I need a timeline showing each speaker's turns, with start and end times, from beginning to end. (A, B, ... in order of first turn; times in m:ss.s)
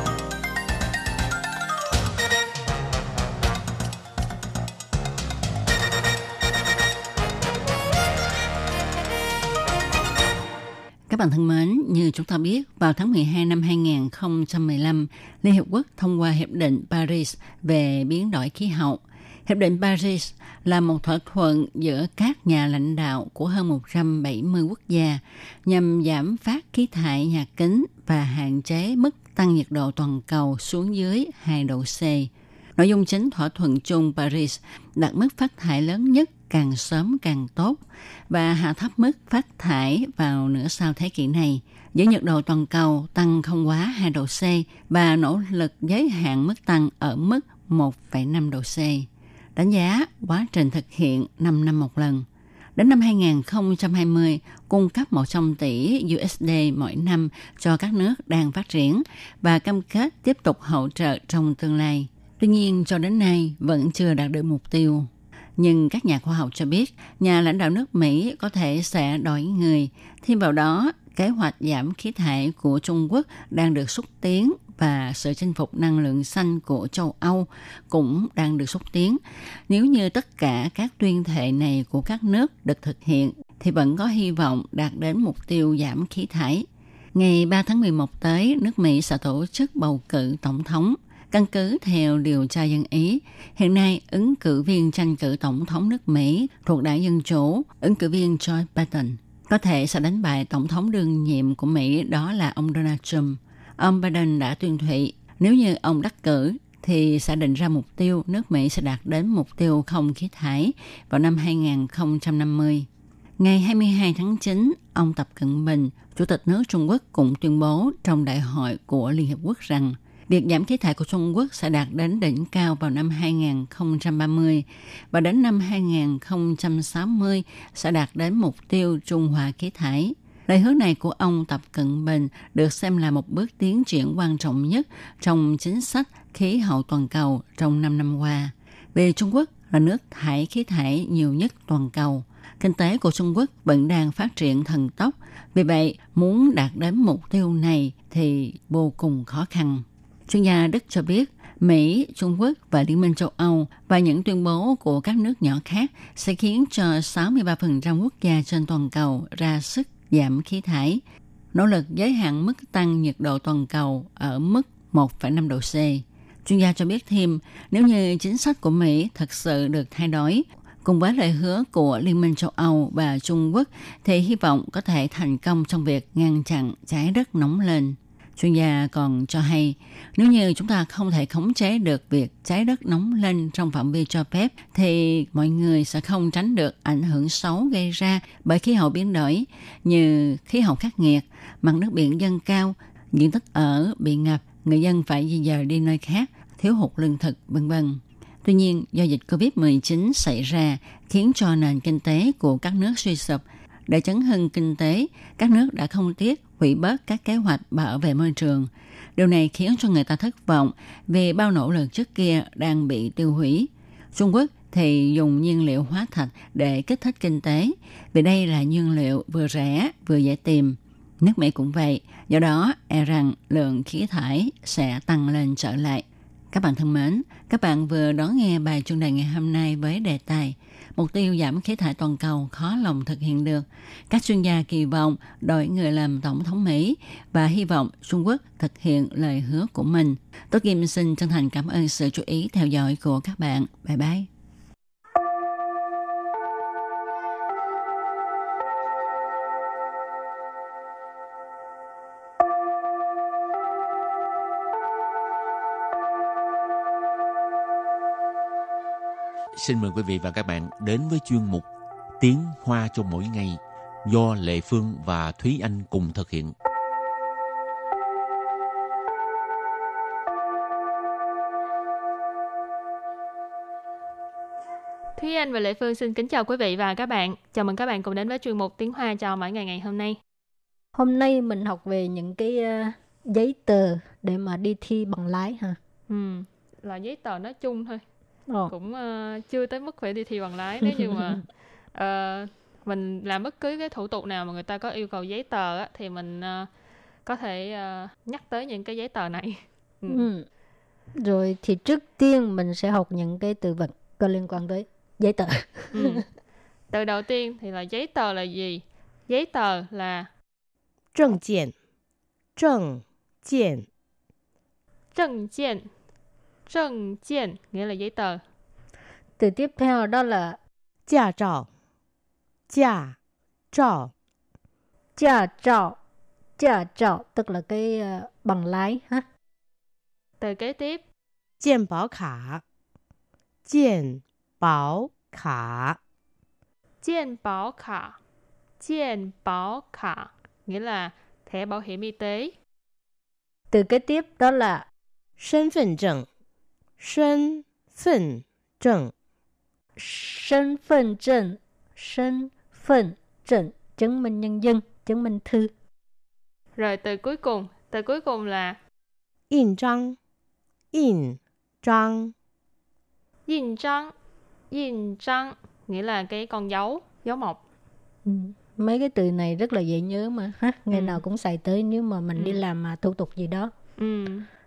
0:11.1-1:52.9 A
1:53.4-2:41.0 A
2:41.5-4:04.3 A
4:19.5-4:21.7 B
4:22.2-4:26.5 B
4:35.2-4:40.2 C
4:40.9-4:45.8 D
4:46.1-4:48.0 C
4:48.7-4:56.7 C
4:51.0-4:51.4 D
4:57.2-5:00.2 C
5:00.1-5:00.4 D
5:01.2-5:06.2 D
5:05.9-5:06.2 C
5:06.9-5:10.3 C
5:11.1-5:11.7 E
5:12.6-5:13.9 E
5:15.1-5:15.9 C
5:16.7-5:18.4 C
5:19.4-5:20.6 D
5:21.1-5:21.7 E
5:22.7-5:23.2 E
5:23.7-5:24.1 E
5:25.2-5:26.0 D
5:26.6-5:29.2 D
5:30.4-5:31.0 C
5:31.6-5:32.6 E
5:33.6-5:36.0 E
5:37.0-5:38.2 C
5:38.8-5:42.5 C
5:43.7-5:44.8 D
5:45.4-5:46.3 E
5:47.0-5:49.1 E
5:50.0-5:55.7 D
5:56.8-5:58.8 C
5:59.5-6:00.2 E
6:00.9-6:02.3 E
6:03.4-6:04.1 C
6:04.7-6:07.6 C
6:08.2-6:13.7 D
6:10.9-6:11.2 C
6:12.3-6:12.6 C
6:14.0-6:14.5 C